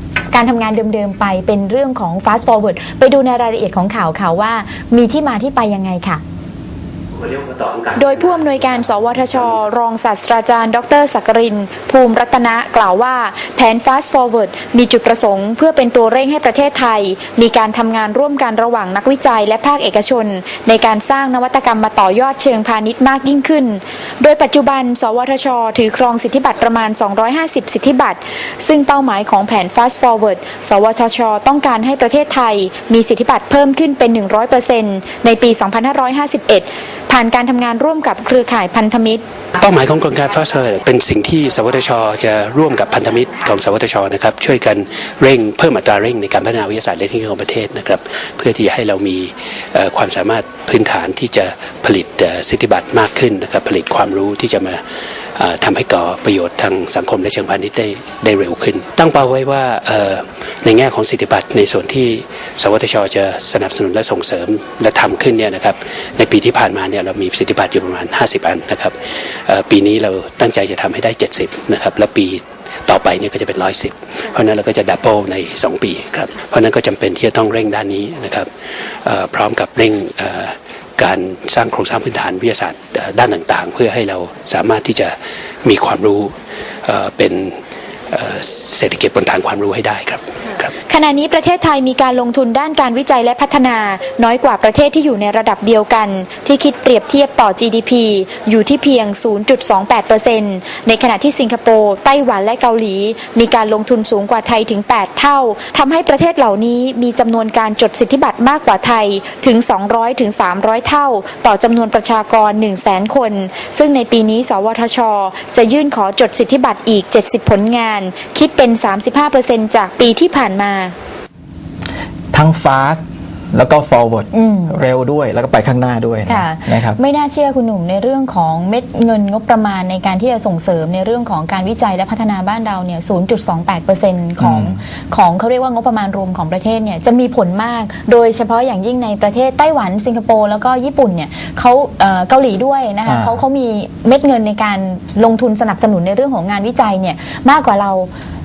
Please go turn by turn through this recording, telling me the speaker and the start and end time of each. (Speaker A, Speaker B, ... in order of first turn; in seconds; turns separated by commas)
Speaker A: 0.3-6.2, Speaker B: 7.1-9.6, Speaker A: 8.0-39.2, Speaker B: 39.6-54.8, Speaker B: 55.4-69.0, Speaker B: 69.5-78.5, Speaker B: 79.0-86.3, Speaker B: 86.8-87.6, Speaker B: 88.1-90.7, Speaker A: 90.9-120.9, Speaker C: 122.3-123.0, Speaker C: 123.5-127.0, Speaker A: 124.3-124.8, Speaker A: 126.3-148.1, Speaker C: 134.4-134.8, Speaker C: 143.1-143.4